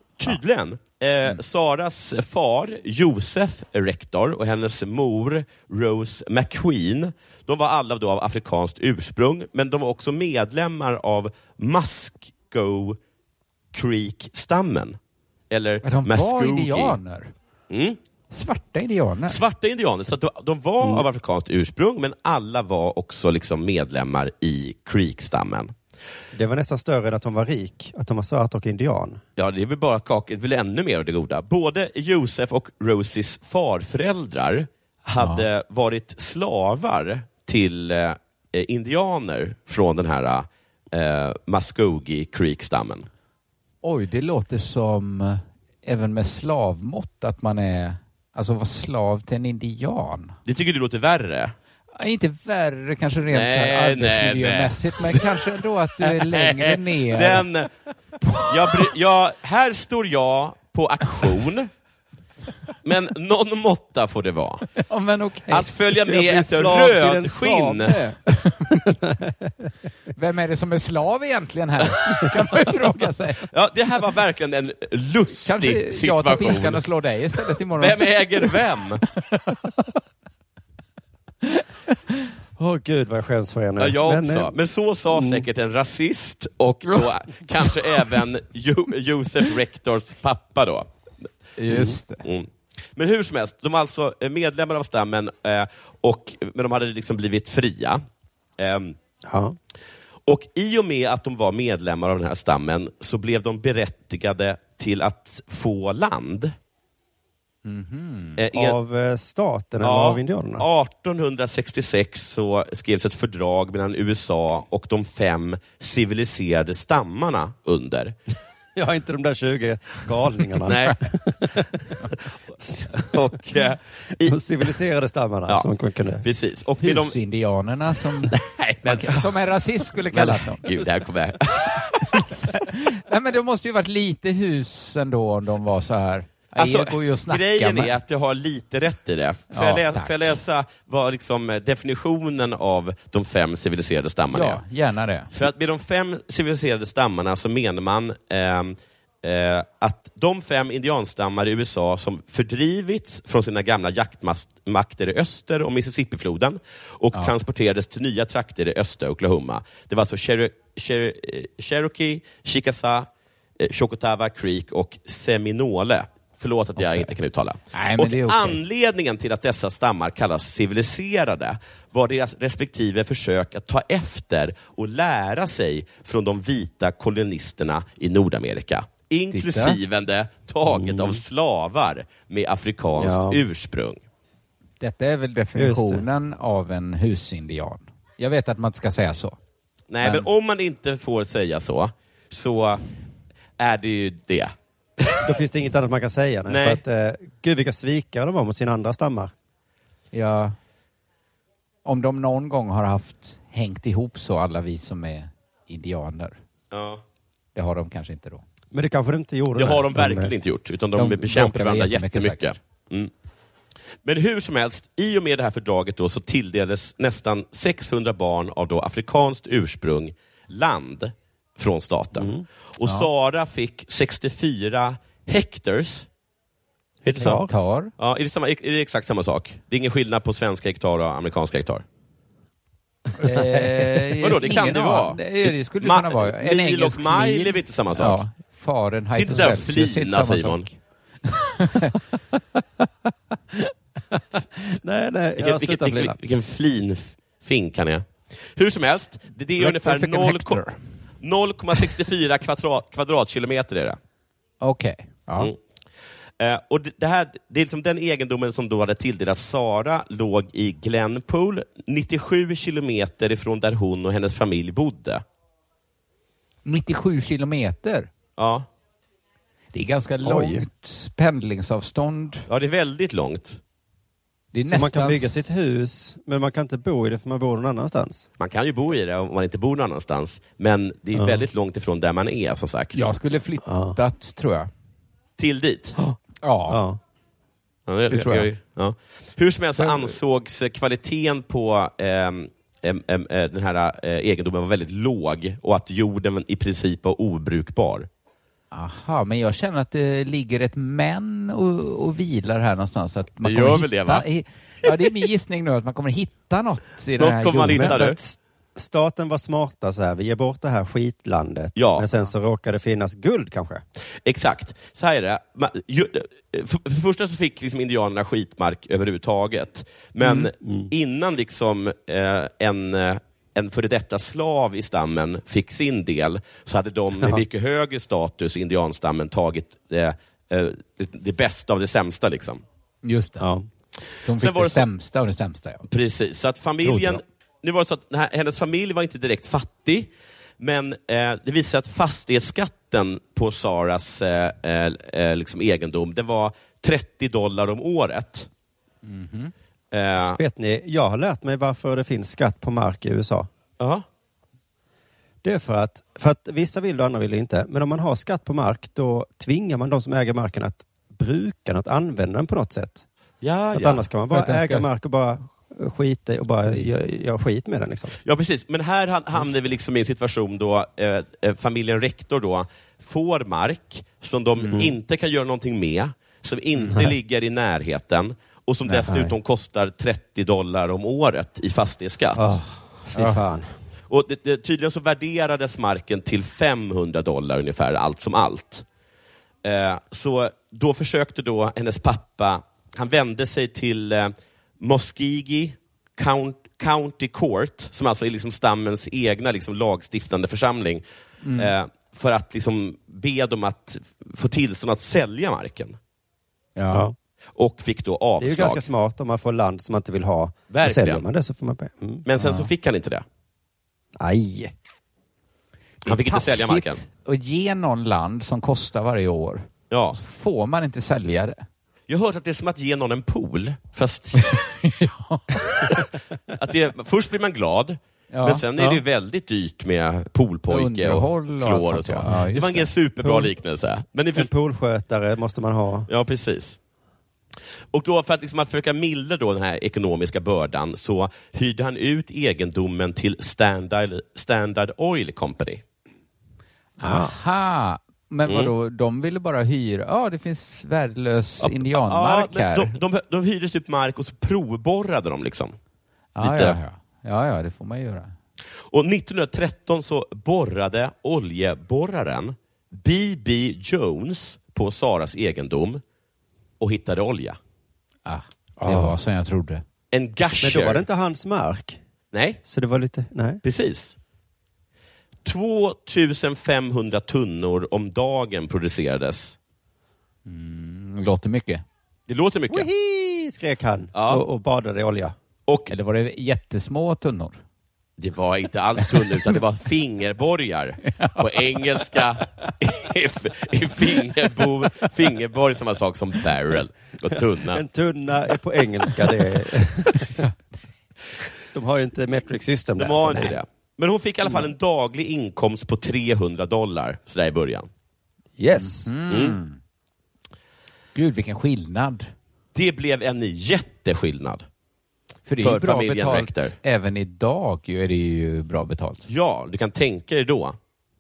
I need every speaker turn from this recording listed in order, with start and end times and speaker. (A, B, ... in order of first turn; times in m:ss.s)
0:00.2-0:13.0 A
0:13.7-0:15.0 A
0:15.5-0:17.0 A
0:15.8-0:17.3 B
0:17.7-0:18.0 A
0:18.3-0:19.4 B
0:19.3-0:25.7 A
0:26.3-0:29.2 C
0:29.4-0:43.1 A
0:35.2-0:35.5 B
0:43.8-0:50.4 B
0:50.5-0:51.5 A
0:52.0-0:57.5 B
0:53.3-0:55.3 A
0:56.0-0:57.7 A
0:58.2-0:58.9 B
0:58.4-1:01.7 A
1:02.8-1:04.7 A
1:04.8-1:05.7 B
1:05.5-1:08.0 A
1:06.0-1:09.7 C
1:10.1-1:13.5 B
1:13.5-1:16.8 A
1:15.4-1:19.8 B
1:17.8-1:19.0 A
1:21.4-1:21.9 B
1:22.6-1:24.5 C
1:23.8-1:30.9 A
1:25.1-1:25.4 C
1:27.9-1:28.2 B
1:31.6-1:32.2 B
1:31.7-1:31.9 C
1:32.2-1:38.0 A
1:38.6-1:39.0 A
1:39.3-1:39.6 C
1:40.3-1:46.6 A
1:47.6-1:48.4 B
1:48.4-1:48.8 A
1:48.5-1:50.7 C
1:49.8-1:58.2 A
1:58.8-2:02.9 C
2:00.6-2:01.0 A
2:02.9-2:04.4 A
2:04.2-2:06.2 C
2:06.2-2:07.2 A
2:06.8-2:10.7 B
2:08.3-2:09.3 A
2:10.1-2:12.4 A
2:12.1-2:18.0 B
2:16.6-2:24.6 A
2:19.5-2:20.4 B
2:24.3-2:25.3 B
2:25.3-2:43.1 A
2:43.6-3:04.0 A
2:47.7-2:48.6 B
2:59.3-2:59.8 B
3:00.7-3:01.2 C
3:03.0-3:03.4 C
3:04.8-3:09.4 B
3:05.6-3:06.0 C
3:09.9-3:12.8 A
3:13.6-3:15.3 A
3:15.2-3:19.3 C
3:16.5-3:16.8 A
3:20.1-3:20.6 B
3:21.8-3:26.4 B
3:26.7-3:27.0 A
3:27.6-3:28.4 B
3:28.7-3:30.4 C
3:29.6-3:33.1 A
3:31.0-3:32.5 B
3:34.0-3:46.1 A
3:42.2-3:42.4 C
3:47.0-3:47.4 A
3:47.2-3:47.5 C
3:47.2-3:47.9 B
3:48.0-3:51.8 A
3:53.2-4:02.0 B
3:53.2-3:54.0 C
3:54.2-3:58.2 A
3:59.1-4:00.7 A
4:04.1-4:06.2 C
4:05.4-4:10.6 A
4:09.6-4:10.8 B
4:11.2-4:14.0 A
4:14.6-4:15.5 B
4:16.4-4:25.2 A
4:26.6-4:28.1 B
4:28.4-4:28.7 A
4:29.7-4:32.5 B
4:30.2-4:30.7 C
4:32.5-4:33.6 A
4:34.5-4:35.5 B
4:34.7-4:38.3 C
4:38.4-4:43.1 A
4:41.2-4:41.4 C
4:42.9-4:44.7 B
4:43.6-4:44.0 C
4:45.4-4:46.0 A
4:46.0-4:47.0 C
4:46.4-4:46.8 B
4:47.9-4:58.1 A
4:48.1-4:48.5 B
4:49.8-4:50.1 B
4:58.7-5:08.0 B
5:03.4-5:04.3 A
5:07.2-5:08.2 A
5:07.6-5:13.8 C
5:11.8-5:12.1 A
5:14.2-5:32.6 A
5:20.6-5:20.9 C
5:33.0-5:33.5 B
5:33.4-5:33.7 C
5:34.2-5:35.9 B
5:34.4-5:34.8 A
5:35.9-5:48.5 A
5:36.9-5:37.2 B
5:49.0-5:49.5 B
5:49.9-5:50.4 A
5:50.4-5:53.5 C
5:53.8-5:54.0 A
5:55.4-6:03.0 C
6:03.4-6:04.1 A
6:03.7-6:08.2 C
6:04.3-6:04.9 B
6:08.2-6:22.6 A
6:19.0-6:19.3 C
6:22.4-6:23.7 C
6:23.2-6:23.4 B
6:24.1-6:28.8 A
6:29.6-6:41.0 A
6:41.4-6:41.7 B
6:41.5-6:46.0 A
6:46.8-6:47.1 B
6:47.6-6:48.8 A
6:48.4-6:52.3 C
6:50.7-6:51.2 A
6:52.2-6:53.2 A
6:52.4-6:52.7 B
6:54.2-6:54.7 C
6:56.0-7:01.6 B
6:56.0-6:57.0 A
6:59.9-7:00.2 A
7:02.1-7:04.5 A
7:04.4-7:06.1 B
7:06.5-7:14.5 A
7:08.3-7:08.6 B
7:10.7-7:12.9 B
7:13.2-7:13.5 C
7:14.3-7:16.1 C
7:16.1-7:16.8 A
7:17.9-7:25.8 A
7:27.0-7:33.0 B
7:27.0-7:27.3 C
7:28.5-7:28.7 A
7:31.6-7:35.8 A
7:36.4-7:38.3 B
7:36.4-7:36.8 A
7:38.9-7:46.0 A
7:46.8-7:47.6 A
7:48.3-7:49.8 B
7:48.8-7:49.2 C
7:50.1-7:51.0 A
7:50.6-7:52.0 C
7:52.3-7:52.6 A
7:52.6-7:53.6 C
7:53.6-7:54.2 A
7:55.4-7:59.6 A
8:00.5-8:01.8 B
8:02.3-8:02.9 A
8:02.7-8:05.4 C
8:04.1-8:04.4 A
8:05.7-8:05.9 A
8:05.9-8:07.6 B
8:08.2-8:17.8 A
8:11.2-8:11.8 B
8:17.6-8:20.4 C
8:20.2-8:20.5 B
8:21.7-8:23.6 C
8:23.0-8:27.9 A
8:28.6-8:29.1 C
8:28.8-8:29.8 B
8:29.3-8:29.6 A
8:31.2-8:32.3 B
8:32.8-8:34.6 A
8:35.5-8:39.3 B
8:35.6-8:36.8 A
8:39.3-8:40.8 A